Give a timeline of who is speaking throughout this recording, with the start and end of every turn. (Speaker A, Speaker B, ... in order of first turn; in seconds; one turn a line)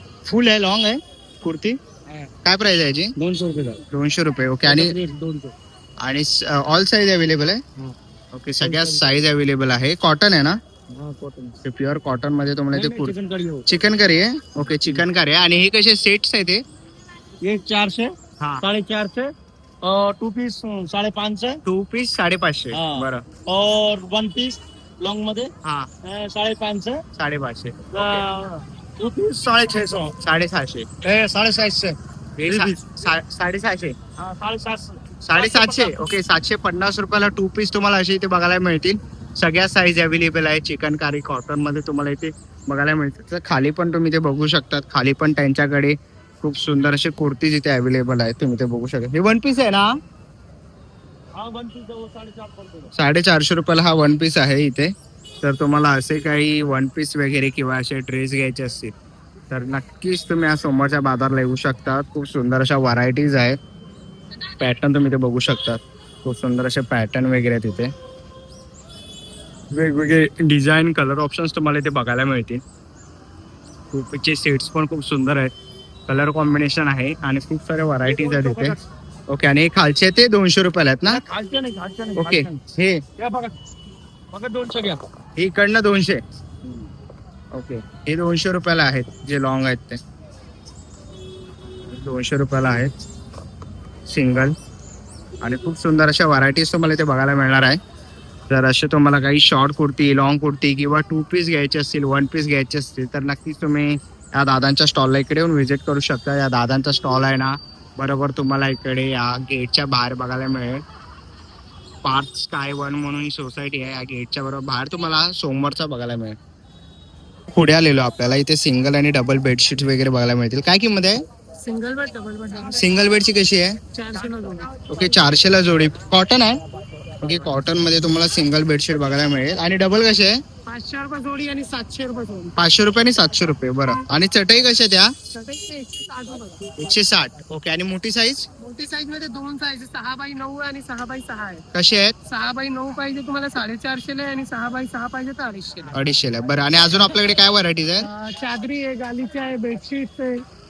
Speaker A: 0.2-1.8
Speaker A: 2.4-3.1
Speaker B: 3.2-3.8
Speaker A: 3.9-4.9
Speaker B: 4.6-5.5
Speaker A: 6.0-7.6
Speaker A: 8.3-10.6
Speaker B: 8.6-9.1
Speaker B: 10.9-11.6
Speaker A: 11.6-13.1
Speaker B: 12.7-13.6
Speaker A: 13.7-16.6
Speaker B: 14.7-15.0
Speaker B: 17.4-18.1
Speaker B: 18.6-21.6
Speaker A: 21.6-23.2
Speaker B: 22.7-25.5
Speaker A: 25.6-25.9
Speaker B: 26.0-27.0
Speaker A: 27.1-28.2
Speaker B: 27.9-30.1
Speaker A: 30.2-34.0
Speaker B: 31.1-31.9
Speaker B: 32.4-32.9
Speaker B: 34.2-36.0
Speaker A: 35.2-49.9
Speaker B: 51.3-52.9
Speaker A: 52.9-58.9
Speaker A: 59.5-63.6
Speaker A: 64.6-67.9
Speaker A: 69.7-72.6
Speaker A: 73.9-75.5
Speaker A: 76.1-78.8
Speaker B: 78.1-78.8
Speaker A: 79.3-81.2
Speaker B: 81.1-82.6
Speaker A: 82.2-83.0
Speaker B: 83.2-83.5
Speaker B: 84.3-85.0
Speaker A: 85.4-86.2
Speaker A: 87.5-90.0
Speaker A: 91.9-92.9
Speaker A: 94.1-94.5
Speaker A: 95.4-97.8
Speaker A: 98.5-110.8
Speaker A: 112.0-116.4
Speaker A: 117.5-121.2
Speaker C: 121.6-122.8
Speaker A: 122.7-123.8
Speaker C: 123.9-124.9
Speaker A: 124.9-126.6
Speaker A: 127.2-130.4
Speaker C: 130.7-132.5
Speaker A: 132.6-135.1
Speaker C: 135.3-136.7
Speaker A: 136.8-138.4
Speaker C: 138.6-141.6
Speaker A: 141.7-142.1
Speaker C: 142.3-145.9
Speaker A: 145.9-148.1
Speaker C: 148.0-150.4